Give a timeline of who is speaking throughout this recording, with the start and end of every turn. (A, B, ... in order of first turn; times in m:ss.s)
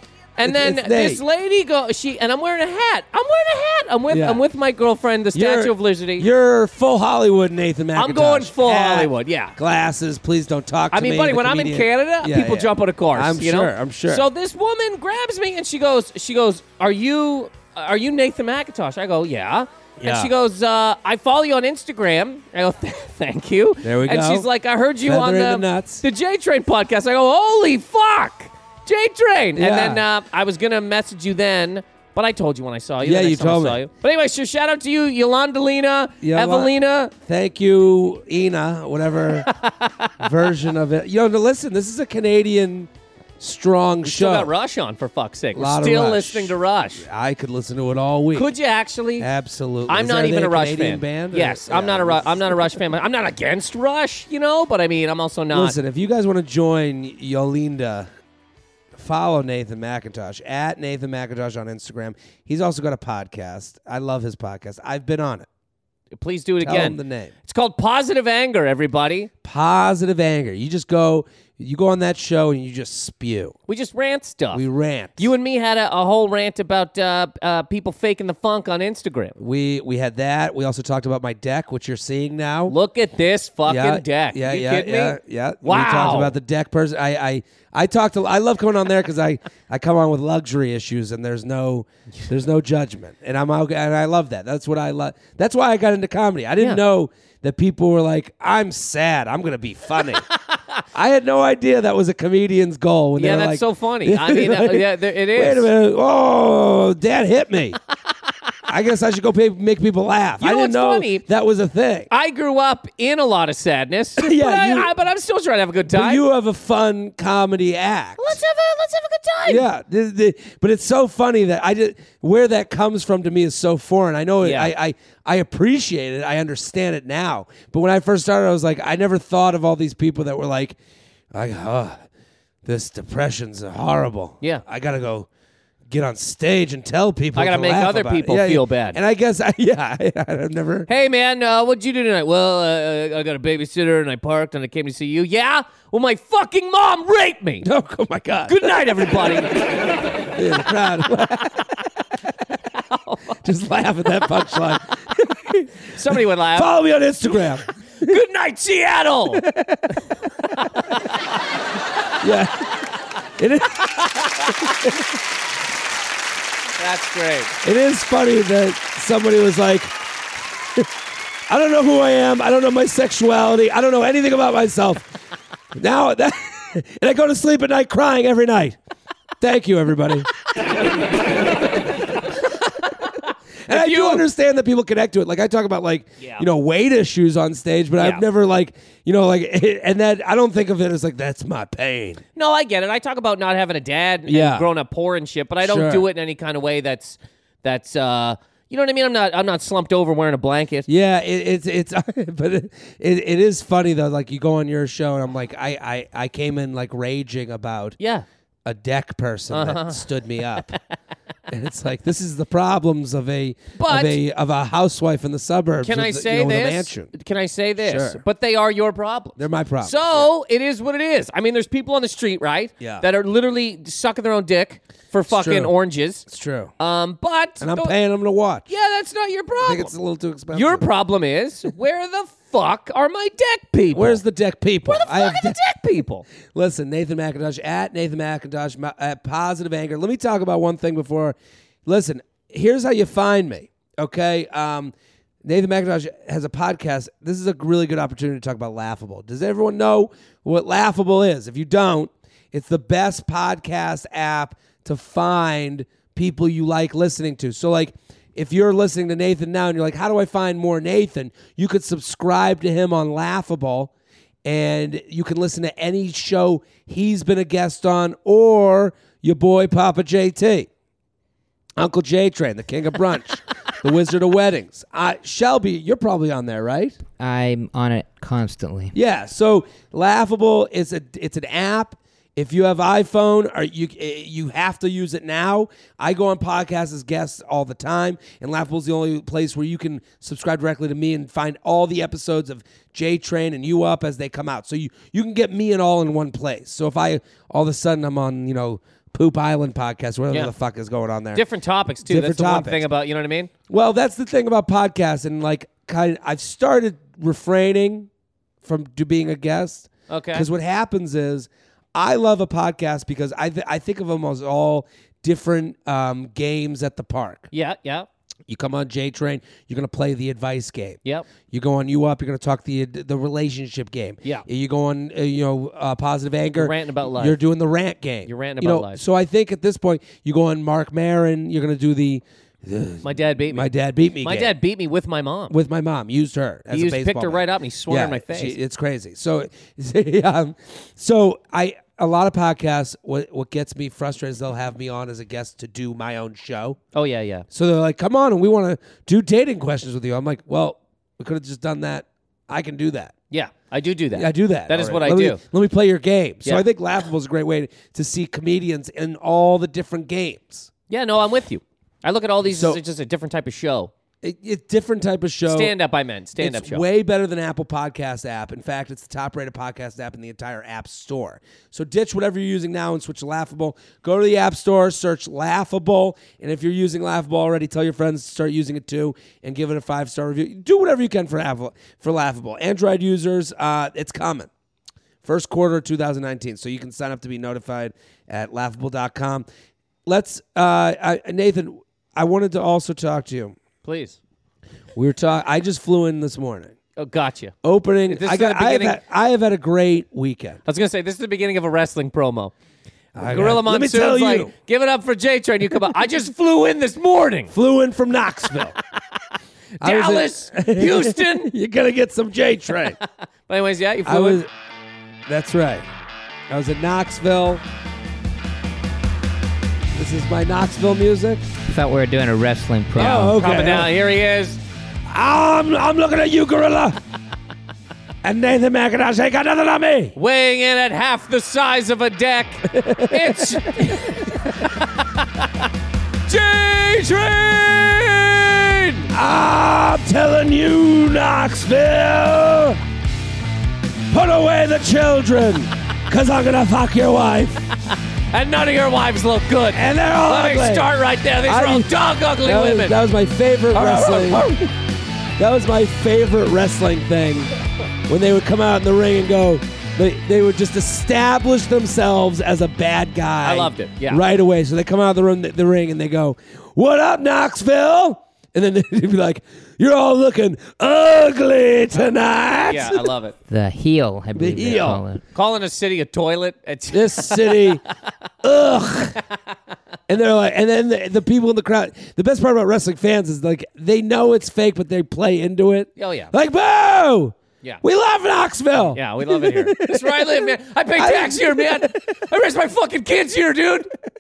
0:00.4-0:06.3 A
0:00.4-0:01.2 B
0:04.1-0:04.4 B
0:05.3-0:14.2 B
0:08.0-0:09.6 A
0:10.9-0:37.1 A
0:20.0-0:20.3 B
0:23.8-0:24.5 B
0:25.0-0:26.0 B
0:29.6-0:30.0 B
0:33.0-0:33.8 B
0:36.2-0:39.5 B
0:39.4-0:40.1 A
0:40.2-0:44.5 B
0:44.0-0:47.0 A
0:45.5-0:48.5 B
0:48.4-0:49.3 A
0:49.2-0:52.6 B
0:49.9-0:55.8 A
0:55.5-0:58.1 B
0:58.9-1:05.5 B
1:06.2-1:09.3 A
1:06.6-1:07.3 B
1:09.4-1:13.6 B
1:13.7-1:14.6 A
1:14.5-1:15.3 B
1:15.2-1:19.4 A
1:19.4-1:22.8 B
1:22.7-1:26.4 A
1:23.7-1:40.2 B
1:40.9-1:47.8 B
1:43.2-1:45.7 A
1:48.7-1:52.1 B
1:50.4-1:51.2 A
1:52.1-1:56.2 A
1:54.2-1:54.9 B
1:55.9-1:58.4 B
1:58.2-1:59.7 A
1:59.4-2:10.8 B
2:04.4-2:04.7 A
2:11.3-2:12.0 B
2:12.6-2:15.3 B
2:15.9-2:20.9 B
2:17.4-2:19.0 A
2:20.9-2:27.7 A
2:27.6-2:29.4 B
2:28.5-2:29.9 A
2:30.2-2:31.7 B
2:32.8-2:33.4 A
2:33.4-2:37.7 B
2:35.9-2:36.7 A
2:38.0-2:39.5 A
2:39.3-2:40.0 B
2:40.6-2:40.9 A
2:42.2-2:42.8 B
2:43.4-2:45.0 B
2:44.1-2:44.6 A
2:46.8-2:47.6 A
2:47.6-2:50.0 B
2:51.5-2:55.1 B
2:55.7-2:58.8 B
2:59.4-3:00.3 B
3:02.8-3:04.2 A
3:03.7-3:12.2 B
3:06.2-3:06.4 A
3:08.0-3:08.2 A
3:12.4-3:20.9 A
3:14.3-3:14.7 B
3:15.6-3:16.1 B
3:20.9-3:28.0 B
3:28.0-3:28.2 A
3:28.6-3:30.7 B
3:29.5-3:30.8 A
3:31.5-3:37.1 B
3:33.8-3:34.2 A
3:35.8-3:46.3 A
3:37.8-3:38.2 B
3:39.4-3:40.3 B
3:42.8-3:43.0 B
3:45.3-3:45.7 B
3:46.3-3:46.7 B
3:46.8-3:47.9 A
3:47.6-3:48.7 B
3:48.7-3:49.9 A
3:49.6-3:50.9 B
3:50.5-3:54.2 A
3:53.9-3:55.6 B
3:54.8-3:56.2 A
3:56.5-4:23.9 B
4:24.4-4:30.7 B
4:31.8-4:37.0 B
4:37.2-4:38.9 C
4:38.9-5:01.4 B
5:01.3-5:03.5 A
5:02.0-5:02.8 B
5:03.7-5:08.1 B
5:08.6-5:17.5 B
5:10.1-5:10.5 A
5:17.5-5:18.1 A
5:18.5-5:34.6 B
5:26.6-5:27.4 A
5:28.3-5:29.0 A
5:33.0-5:33.7 A
5:34.2-5:35.5 A
5:35.5-5:46.8 B
5:36.7-5:38.6 A
5:46.9-5:47.4 A
5:47.5-5:53.1 B
5:53.3-5:55.4 A
5:54.1-6:00.7 B
6:00.9-6:03.9 A
6:02.4-6:02.8 B
6:04.2-6:05.8 B
6:05.5-6:06.8 A
6:06.4-6:24.5 B
6:25.2-6:29.4 B
6:30.1-6:33.6 B
6:33.8-6:34.2 A
6:34.9-6:36.7 B
6:37.0-6:37.5 A
6:37.6-6:40.6 B
6:38.1-6:39.0 A
6:40.7-6:42.5 A
6:43.2-6:44.5 B
6:43.2-6:47.5 A
6:47.5-6:48.8 B
6:49.8-6:51.5 A
6:49.8-6:53.0 B
6:53.0-6:54.4 A
6:54.0-6:54.5 B
6:55.3-6:55.8 B
6:56.5-6:57.6 B
6:59.9-7:01.4 B
7:01.7-7:03.4 C
7:03.0-7:04.6 A
7:03.0-7:03.9 B
7:05.1-7:07.0 B
7:08.2-7:10.2 B
7:10.2-7:15.6 A
7:12.7-7:14.2 B
7:16.3-7:19.1 A
7:19.1-7:22.8 B
7:24.1-7:27.7 B
7:27.9-7:33.0 A
7:29.7-7:30.9 B
7:31.4-7:31.9 B
7:32.4-7:34.7 B
7:33.7-7:34.6 A
7:35.4-7:37.5 B
7:38.1-7:53.1 B
7:43.4-7:44.2 A
7:52.7-7:53.4 A
7:53.5-7:55.2 C
7:54.3-7:55.0 B
7:54.7-7:57.8 A
7:56.9-7:57.8 B
7:58.4-7:59.2 B
8:00.1-8:12.1 B
8:06.0-8:06.3 A
8:08.9-8:13.9 A